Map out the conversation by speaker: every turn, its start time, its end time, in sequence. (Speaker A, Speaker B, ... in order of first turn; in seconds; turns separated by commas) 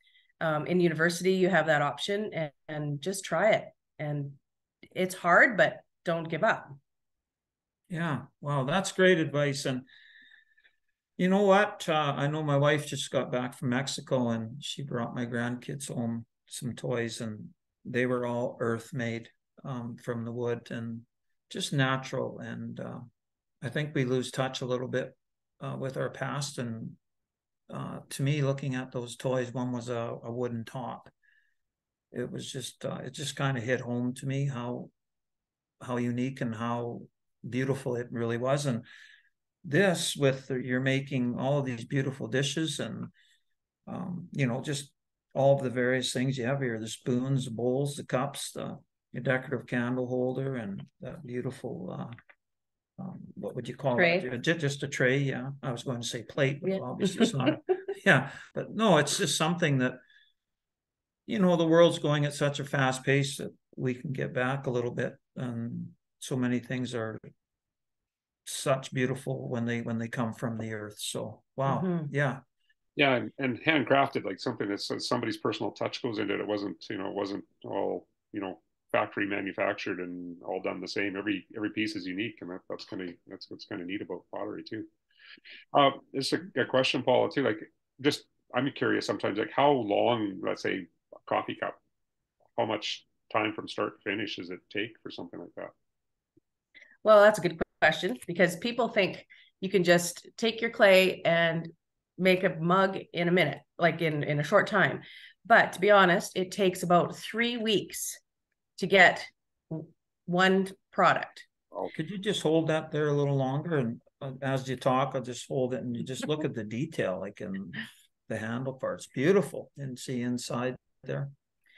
Speaker A: 0.4-4.4, Speaker A: 4.9-6.8, Speaker B: 7.9-9.8, Speaker B: 11.2-23.1, Speaker B: 23.6-27.0, Speaker B: 27.7-31.1, Speaker B: 32.1-34.9, Speaker B: 35.8-38.9, Speaker B: 39.6-43.1, Speaker B: 43.9-52.1, Speaker B: 53.0-60.0, Speaker A: 54.0-54.3, Speaker A: 56.7-57.3, Speaker B: 61.3-67.2, Speaker B: 68.5-72.4, Speaker A: 71.7-72.1, Speaker C: 73.0-84.9, Speaker C: 85.7-91.8, Speaker C: 92.6-95.7, Speaker A: 97.0-108.2, Speaker A: 108.8-111.5, Speaker B: 112.0-121.3